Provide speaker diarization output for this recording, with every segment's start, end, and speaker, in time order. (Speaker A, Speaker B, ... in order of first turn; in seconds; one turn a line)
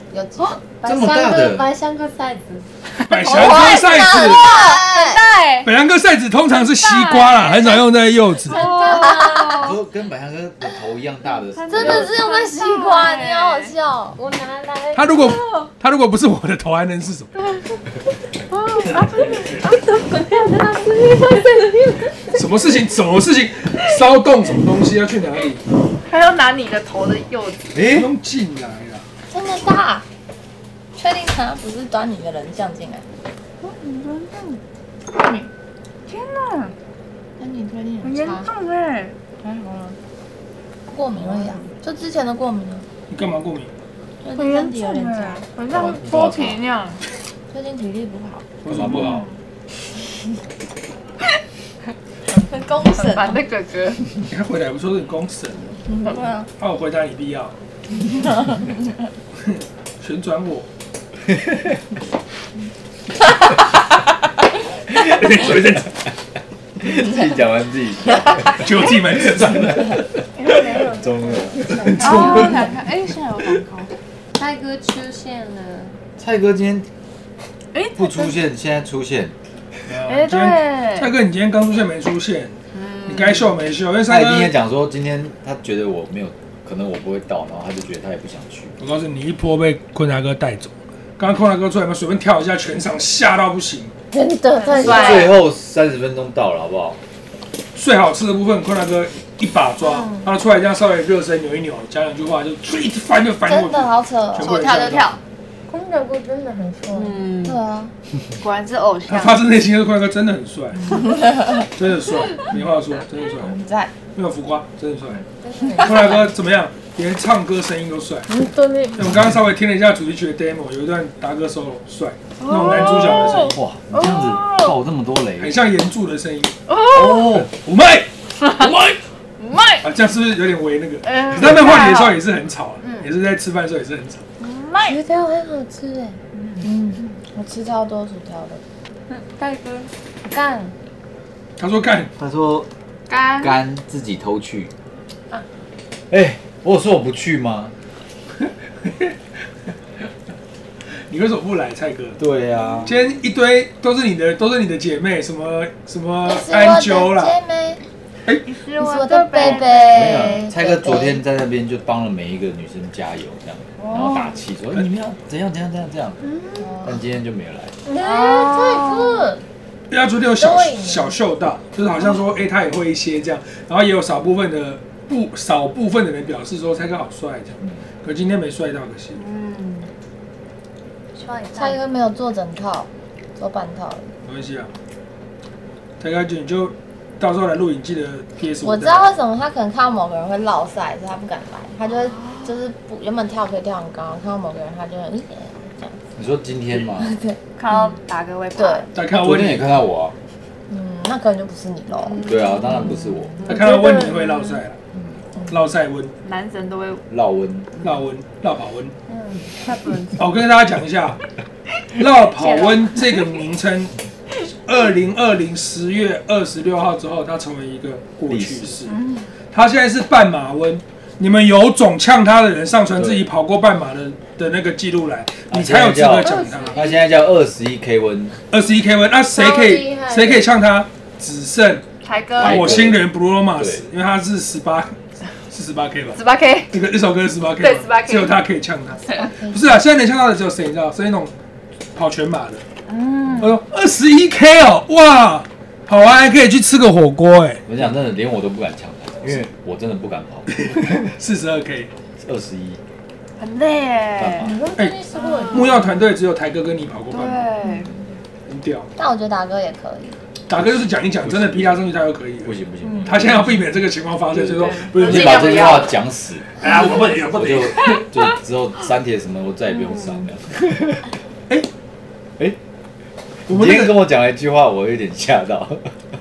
Speaker A: 0.1-0.6
Speaker B: 0.7-2.7
Speaker C: 0.8-1.7
Speaker D: 3.1-4.5
Speaker E: 3.1-5.7
Speaker A: 3.1-5.2
Speaker D: 5.6-8.7
Speaker E: 6.8-7.8
Speaker B: 8.5-9.7
Speaker E: 8.5-9.8
Speaker A: 8.8-9.7
Speaker C: 9.6-12.2
Speaker E: 11.5-13.7
Speaker A: 11.7-14.2
Speaker B: 14.2-15.3
Speaker D: 14.9-17.3
Speaker E: 17.4-17.7
Speaker E: 18.5-19.7
Speaker D: 19.0-19.6
Speaker B: 19.6-22.4
Speaker D: 22.3-25.6
Speaker E: 26.1-27.7
Speaker C: 27.7-28.1
Speaker D: 27.8-29.0
Speaker A: 29.3-30.1
Speaker A: 31.0-33.0
Speaker E: 33.6-34.6
Speaker A: 35.1-35.5
Speaker E: 36.1-36.7
Speaker A: 37.4-38.5
Speaker E: 38.0-39.1
Speaker A: 39.4-40.0
Speaker A: 40.9-42.9
Speaker E: 41.2-41.6
Speaker D: 43.1-43.7
Speaker A: 44.2-45.4
Speaker E: 44.4-47.0
Speaker C: 45.7-46.6
Speaker A: 47.5-48.5
Speaker D: 48.6-49.3
Speaker C: 48.7-49.2
Speaker E: 48.9-49.4
Speaker A: 52.3-53.4
Speaker E: 52.9-54.0
Speaker D: 54.3-55.8
Speaker A: 55.9-56.5
Speaker D: 56.6-57.5
Speaker D: 59.4-60.7
Speaker C: 65.0-65.5
Speaker D: 65.0-65.9
Speaker C: 66.8-68.7
Speaker A: 68.1-68.5
Speaker D: 68.5-70.0
Speaker C: 69.2-70.1
Speaker B: 70.4-72.7
Speaker C: 70.8-72.7
Speaker D: 72.0-72.6
Speaker E: 72.0-73.9
Speaker B: 74.4-76.0
Speaker C: 76.2-76.9
Speaker E: 77.7-78.3
Speaker C: 78.0-79.3
Speaker D: 79.9-84.5
Speaker E: 80.1-81.1
Speaker E: 82.7-83.5
Speaker C: 84.1-88.8
Speaker D: 88.8-93.9
Speaker A: 94.1-95.3
Speaker B: 94.2-95.2
Speaker E: 94.6-95.3
Speaker C: 94.8-97.0
Speaker D: 97.8-105.2
Speaker A: 103.5-104.8
Speaker E: 104.4-105.2
Speaker B: 105.7-107.2
Speaker E: 106.9-107.6
Speaker A: 107.4-107.9
Speaker E: 108.4-109.4
Speaker D: 109.1-111.0
Speaker A: 111.2-111.6
Speaker D: 111.8-113.6
Speaker A: 113.4-114.0
Speaker D: 114.1-115.2
Speaker B: 115.4-116.3
Speaker D: 115.8-118.3
Speaker B: 118.3-119.0
Speaker D: 119.0-123.6
Speaker E: 122.4-124.8
Speaker C: 123.3-125.6
Speaker D: 125.4-126.5
Speaker E: 126.7-127.3
Speaker C: 126.9-127.5
Speaker D: 127.4-129.0
Speaker E: 128.4-128.7
Speaker E: 129.4-129.8
Speaker D: 129.8-134.2
Speaker E: 131.1-132.2
Speaker E: 132.8-133.1
Speaker E: 134.4-135.0
Speaker B: 134.8-136.2
Speaker E: 136.3-136.7
Speaker A: 136.6-138.6
Speaker E: 139.1-139.9
Speaker B: 140.2-140.7
Speaker D: 141.6-142.1
Speaker C: 142.2-142.7
Speaker E: 143.1-143.6
Speaker C: 143.4-144.7
Speaker C: 146.1-147.7
Speaker D: 148.4-149.2
Speaker D: 150.9-152.2
Speaker C: 152.2-152.9
Speaker D: 152.8-157.4
Speaker A: 156.2-157.8
Speaker E: 158.5-160.5
Speaker A: 158.8-161.2
Speaker C: 159.9-166.2
Speaker E: 163.8-164.4
Speaker B: 166.3-166.7
Speaker C: 166.8-167.8
Speaker B: 167.8-169.4
Speaker E: 167.9-169.2
Speaker D: 169.9-179.2
Speaker B: 170.4-171.1
Speaker E: 179.2-179.9
Speaker B: 181.2-181.8
Speaker A: 181.6-184.1
Speaker D: 184.2-184.7
Speaker D: 186.0-189.1
Speaker A: 188.6-196.0
Speaker E: 192.0-192.5
Speaker C: 196.2-197.1
Speaker A: 196.9-197.9
Speaker E: 197.6-198.9
Speaker A: 198.6-198.9
Speaker D: 198.9-199.8
Speaker C: 199.1-200.2
Speaker A: 200.7-202.3
Speaker E: 202.1-202.9
Speaker C: 202.2-203.4
Speaker D: 203.4-204.8
Speaker B: 203.5-204.2
Speaker D: 205.5-206.1
Speaker E: 206.2-207.1
Speaker C: 207.1-207.7
Speaker D: 207.8-208.9
Speaker B: 209.1-210.2
Speaker D: 210.2-211.2
Speaker D: 211.9-213.9
Speaker E: 212.3-213.2
Speaker D: 214.7-219.0
Speaker C: 218.3-218.8
Speaker E: 218.9-219.3
Speaker D: 219.5-226.8
Speaker C: 223.0-223.3
Speaker C: 225.5-228.4
Speaker B: 226.2-226.9
Speaker D: 228.5-231.8
Speaker B: 229.3-230.5
Speaker E: 232.0-232.8
Speaker D: 232.4-236.2
Speaker C: 232.4-233.8
Speaker E: 236.2-236.7
Speaker D: 236.7-241.3
Speaker E: 237.6-238.4
Speaker A: 239.1-239.8
Speaker D: 241.9-242.6
Speaker E: 242.9-243.6
Speaker D: 243.4-247.6
Speaker C: 247.7-250.6
Speaker D: 250.5-251.9
Speaker C: 252.2-252.8
Speaker E: 253.4-254.5
Speaker C: 254.2-254.6
Speaker B: 254.4-255.9
Speaker D: 254.8-257.5
Speaker E: 255.2-255.8
Speaker E: 257.1-257.9
Speaker D: 258.5-258.9
Speaker A: 259.0-260.2
Speaker D: 260.5-262.5
Speaker C: 260.6-261.8
Speaker C: 262.4-263.7
Speaker D: 263.1-265.8
Speaker C: 264.3-271.1
Speaker E: 264.6-265.9
Speaker D: 266.6-268.1
Speaker E: 269.7-270.3
Speaker D: 273.5-274.0
Speaker C: 273.5-276.0